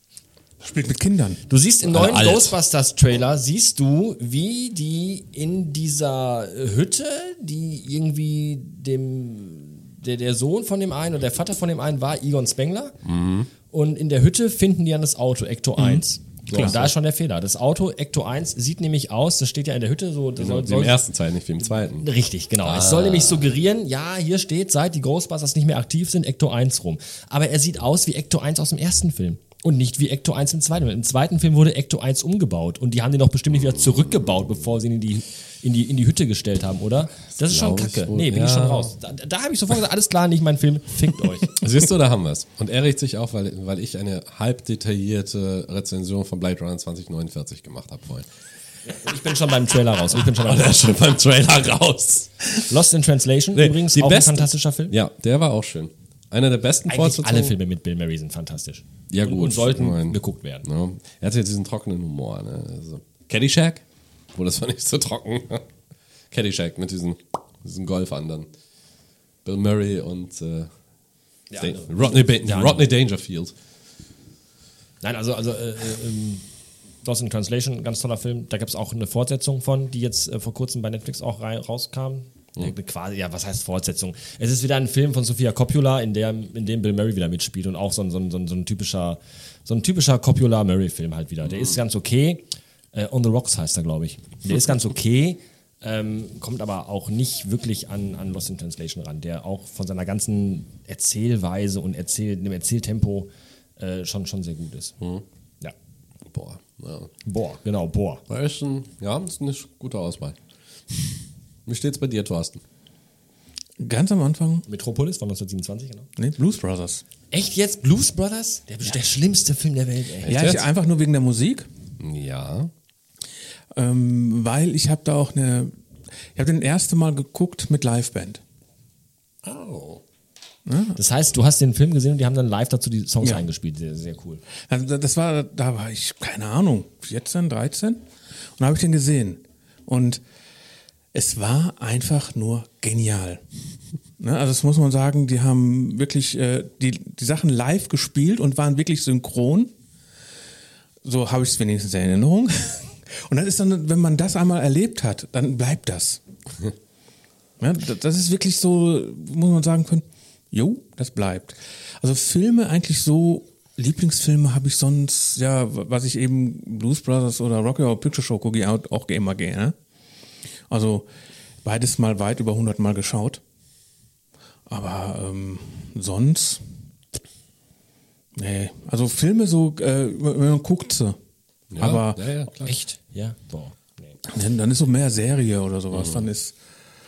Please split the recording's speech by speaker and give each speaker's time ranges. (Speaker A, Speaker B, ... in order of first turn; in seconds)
Speaker A: 0.6-1.4, 15.8-16.0, 113.8-114.7, 116.2-117.0, 120.2-121.7, 123.7-125.7, 126.3-128.4, 130.7-131.0, 134.7-138.0, 138.6-140.2, 141.1-143.4, 144.2-149.7, 151.0-156.2, 157.6-169.8, 170.7-171.1, 171.6-173.4, 174.7-176.6, 178.4-181.2, 181.8-182.3, 184.3-186.6
Speaker B: 1.5-13.0, 13.7-21.0, 21.9-41.6, 48.9-51.0, 52.6-55.0, 56.9-60.7, 71.5-72.9, 75.0-76.5, 77.0-105.0, 107.2-108.2, 114.7-116.1, 117.3-120.4, 131.0-134.4, 182.6-184.2
Speaker C: 1.9-2.6, 13.1-13.5, 16.5-16.9, 20.4-22.1, 22.6-23.5, 37.4-39.0, 41.5-48.3, 50.2-52.5, 53.5-57.5, 59.1-65.7, 66.3-68.5, 69.5-70.7, 71.6-73.5, 106.3-107.1, 108.3-110.4, 110.9-112.6, 120.3-120.7, 122.0-122.7, 129.4-130.0, 181.7-182.8, 185.9-186.3